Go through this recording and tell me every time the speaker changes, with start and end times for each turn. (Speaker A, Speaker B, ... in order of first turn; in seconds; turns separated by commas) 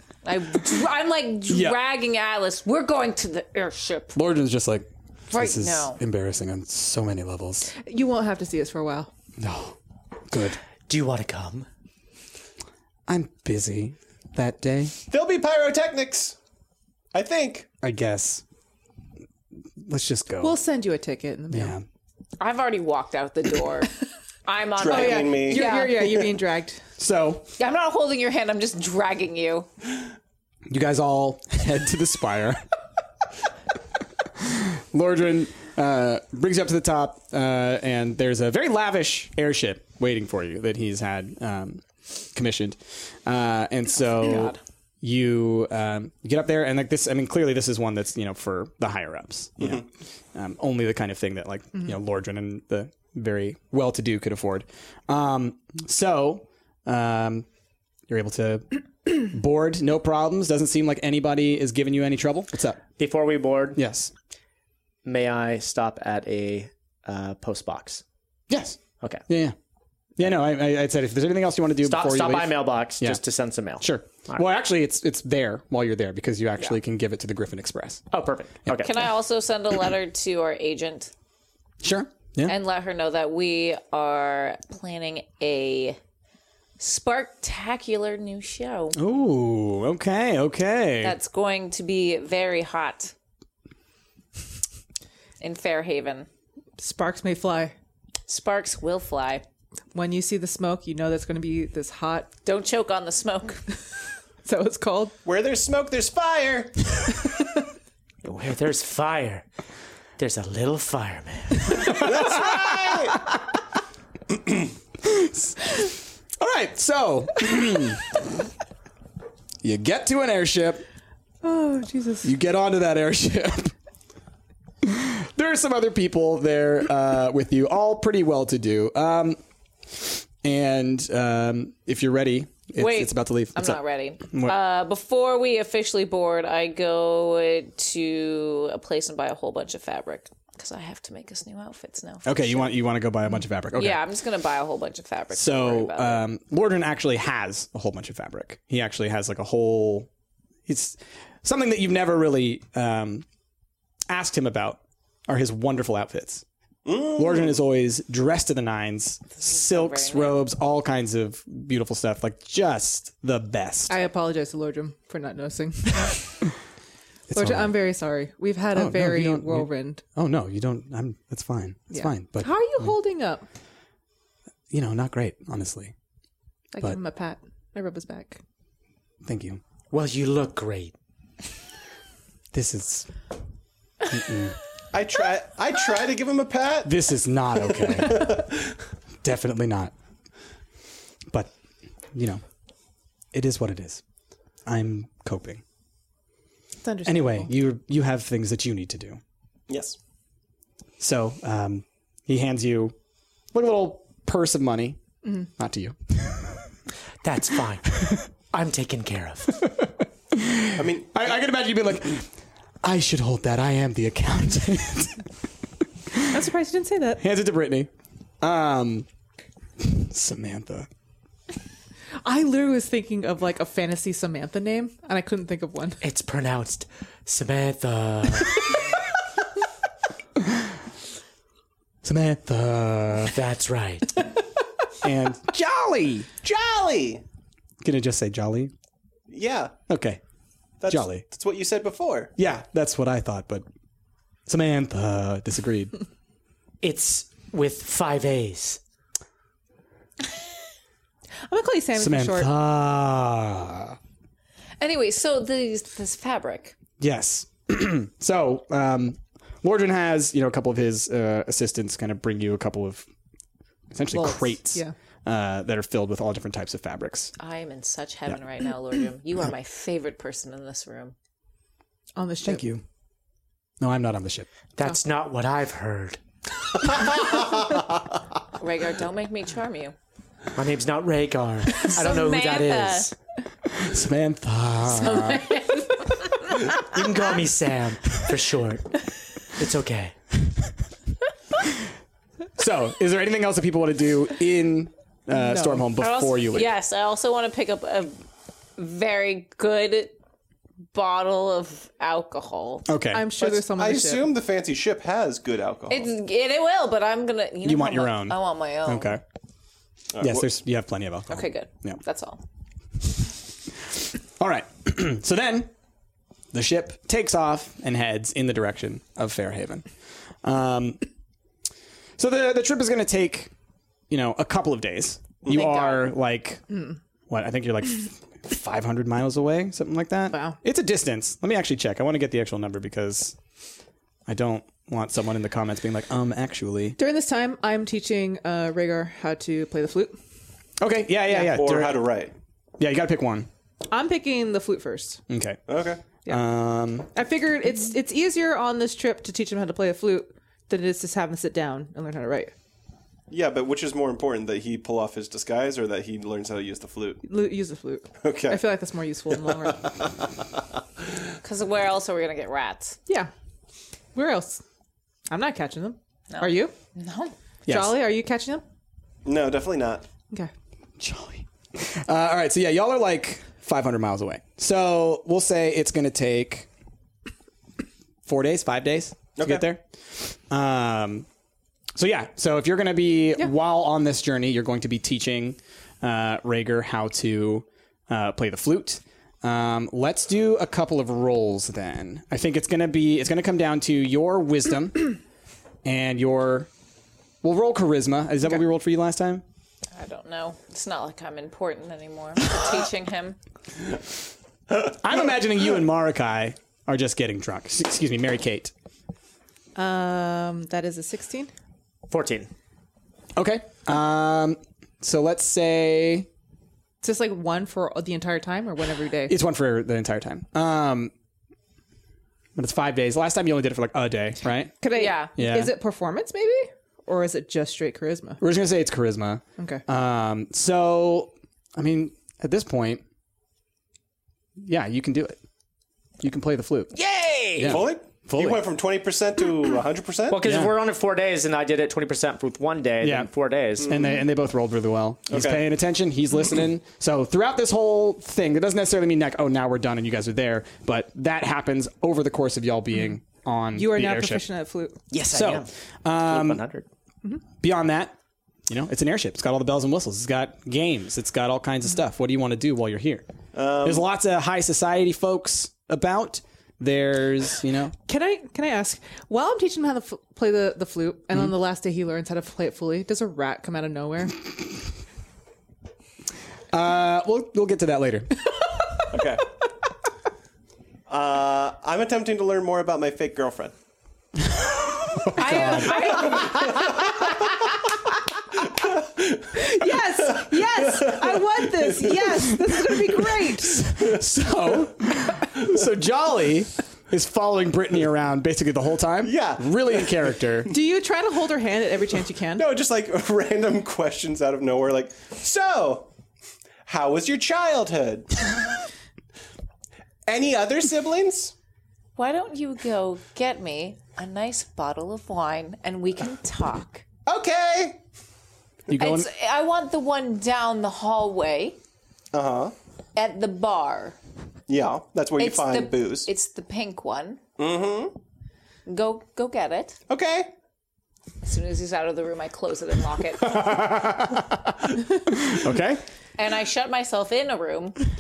Speaker A: 0.2-4.2, Speaker B: 1.5-1.8, Speaker B: 4.1-7.7, Speaker A: 5.3-6.0, Speaker C: 7.8-9.1, Speaker B: 9.4-9.8, Speaker B: 10.3-10.6, Speaker D: 10.9-11.7, Speaker B: 13.1-14.9, Speaker E: 15.1-16.4, Speaker E: 17.1-17.7, Speaker B: 17.8-18.4, Speaker B: 19.8-20.6, Speaker C: 20.4-21.8, Speaker B: 21.5-21.8, Speaker A: 22.4-23.9, Speaker A: 24.5-26.2, Speaker E: 24.8-25.8, Speaker C: 24.9-26.8, Speaker B: 27.0-27.5, Speaker A: 27.6-29.7, Speaker B: 30.7-32.6, Speaker B: 34.4-57.5, Speaker A: 44.2-44.6, Speaker B: 58.1-62.9, Speaker D: 63.0-63.8, Speaker B: 63.8-64.1, Speaker D: 65.0-68.0, Speaker B: 68.5-69.5, Speaker B: 70.2-73.2, Speaker D: 71.8-74.5, Speaker B: 73.8-78.0, Speaker D: 78.1-79.0, Speaker B: 78.7-79.0, Speaker A: 78.8-81.1, Speaker B: 81.8-82.5, Speaker A: 82.5-86.0, Speaker A: 86.8-89.0, Speaker B: 89.0-91.2, Speaker A: 91.0-93.1, Speaker A: 95.4-96.3, Speaker C: 96.8-97.7, Speaker A: 98.3-99.5, Speaker C: 99.9-102.3, Speaker A: 102.5-103.6, Speaker C: 104.5-105.2, Speaker E: 105.2-106.9, Speaker D: 108.2-109.5, Speaker D: 110.2-111.9, Speaker B: 111.7-112.8, Speaker E: 111.9-113.2, Speaker B: 115.0-115.8, Speaker B: 116.4-118.1, Speaker B: 119.6-120.8, Speaker C: 121.4-122.3, Speaker B: 122.2-123.7, Speaker B: 124.8-129.4, Speaker B: 130.0-134.6, Speaker A: 132.8-142.7, Speaker B: 142.2-144.1, Speaker A: 143.8-146.2, Speaker B: 145.3-150.1, Speaker B: 150.7-153.2, Speaker B: 154.1-156.4, Speaker E: 156.9-157.6, Speaker B: 157.1-163.9, Speaker A: 159.4-160.4, Speaker C: 163.9-166.4, Speaker B: 167.3-167.8, Speaker C: 167.3-170.0, Speaker B: 168.7-172.9, Speaker C: 171.9-173.5, Speaker B: 174.7-175.9, Speaker C: 176.7-178.4, Speaker B: 179.2-179.6, Speaker D: 179.9-180.9, Speaker B: 182.5-183.1, Speaker B: 184.1-184.6, Speaker E: 184.9-186.9, Speaker B: 186.8-188.4, Speaker E: 187.9-188.7, Speaker B: 189.2-189.9, Speaker B: 192.1-192.4, Speaker B: 193.3-194.0, Speaker B: 194.7-195.6, Speaker C: 196.8-197.5, Speaker B: 197.1-199.2, Speaker E: 199.7-200.0, Speaker B: 201.0-202.9, Speaker B: 203.5-206.7, Speaker D: 207.2-209.6, Speaker B: 209.6-212.3, Speaker E: 210.8-211.1, Speaker B: 212.8-215.2, Speaker B: 216.1-216.4, Speaker C: 216.3-217.2, Speaker B: 217.2-217.9, Speaker B: 218.4-219.1, Speaker B: 219.8-220.9, Speaker C: 222.2-226.0, Speaker D: 226.0-228.8, Speaker B: 232.0-233.4, Speaker D: 233.3-234.3, Speaker B: 235.0-236.3, Speaker E: 236.4-237.2, Speaker B: 237.8-238.7, Speaker E: 239.3-239.7, Speaker B: 239.9-240.2, Speaker E: 240.8-242.3, Speaker B: 240.9-241.2, Speaker B: 242.4-243.7, Speaker B: 244.5-245.9, Speaker D: 246.8-248.8, Speaker C: 251.4-252.5, Speaker B: 251.9-254.0, Speaker A: 254.8-256.8, Speaker B: 257.0-263.1, Speaker B: 263.9-267.3, Speaker C: 264.1-264.9, Speaker A: 267.4-271.1, Speaker C: 272.2-272.6, Speaker B: 272.4-272.8, Speaker B: 273.8-274.5, Speaker D: 274.8-276.2, Speaker A: 278.6-279.9, Speaker D: 280.6-283.1, Speaker A: 281.8-283.1, Speaker B: 283.7-285.5, Speaker A: 284.9-286.7, Speaker D: 286.7-290.2, Speaker B: 292.6-296.7, Speaker C: 295.3-295.9, Speaker A: 296.0-298.2, Speaker A: 298.8-300.1, Speaker A: 300.9-302.9, Speaker B: 302.9-303.3, Speaker C: 303.1-304.4, Speaker E: 303.4-306.1, Speaker A: 305.9-309.2, Speaker B: 307.6-309.2, Speaker E: 310.1-310.5, Speaker B: 310.2-312.0, Speaker A: 311.3-312.4, Speaker B: 314.4-315.7, Speaker B: 316.5-319.9, Speaker B: 320.4-321.0, Speaker B: 322.2-323.5, Speaker B: 324.1-326.7, Speaker A: 325.5-326.0, Speaker B: 327.3-333.4, Speaker C: 330.3-330.6, Speaker B: 334.3-337.0, Speaker C: 337.0-340.2, Speaker B: 340.8-342.1, Speaker E: 341.4-342.3, Speaker B: 342.8-343.5, Speaker C: 343.9-345.2, Speaker B: 345.3-345.6, Speaker E: 345.7-346.0, Speaker B: 346.3-347.1, Speaker C: 347.1-352.5, Speaker E: 353.3-357.2, Speaker C: 357.2-359.9, Speaker E: 358.2-358.7, Speaker E: 359.5-359.7, Speaker A: 361.4-363.0, Speaker C: 364.1-364.6, Speaker C: 365.3-366.7, Speaker A: 366.3-367.3, Speaker B: 367.7-368.0, Speaker C: 367.7-368.6, Speaker E: 369.2-370.1, Speaker B: 371.0-376.7, Speaker B: 378.2-381.3, Speaker E: 379.4-379.6, Speaker B: 381.9-395.2, Speaker B: 395.9-396.7, Speaker B: 397.4-399.4, Speaker A: 399.9-403.4, Speaker B: 404.8-408.7, Speaker C: 409.8-411.5, Speaker D: 412.1-412.5, Speaker B: 413.4-416.3, Speaker C: 417.0-419.4, Speaker B: 419.3-421.1, Speaker B: 422.6-424.8, Speaker C: 424.8-428.4, Speaker A: 424.9-425.3, Speaker B: 425.4-425.8, Speaker B: 428.4-433.0, Speaker C: 429.6-429.8, Speaker B: 434.6-435.4, Speaker B: 436.2-437.0, Speaker D: 436.9-437.8, Speaker B: 437.6-438.6, Speaker E: 437.6-440.4, Speaker D: 440.3-443.9, Speaker B: 440.4-440.8, Speaker B: 443.0-454.4, Speaker E: 443.8-444.1, Speaker E: 445.3-445.6, Speaker C: 453.7-455.0, Speaker D: 455.1-456.9, Speaker B: 455.3-456.6, Speaker B: 457.6-458.2, Speaker B: 458.7-463.2, Speaker E: 463.5-464.1, Speaker B: 463.8-468.0, Speaker C: 468.1-474.5, Speaker B: 476.7-478.4, Speaker E: 479.1-479.5, Speaker E: 481.1-483.8, Speaker B: 485.3-486.4, Speaker A: 485.3-486.7, Speaker E: 485.6-487.3, Speaker E: 488.8-492.4, Speaker C: 489.6-493.9, Speaker B: 493.6-500.7, Speaker E: 499.2-500.4, Speaker C: 500.7-502.7, Speaker E: 502.6-506.1, Speaker E: 506.9-508.5, Speaker E: 510.3-511.5, Speaker A: 512.2-517.0, Speaker E: 517.3-518.0, Speaker B: 518.9-519.3, Speaker A: 519.0-521.8, Speaker E: 522.3-522.7, Speaker A: 523.1-524.2, Speaker E: 524.7-526.3, Speaker A: 525.4-527.4, Speaker E: 527.6-528.2, Speaker A: 528.9-530.0, Speaker E: 530.1-530.5, Speaker A: 531.4-533.8, Speaker B: 533.4-536.0, Speaker A: 536.4-538.0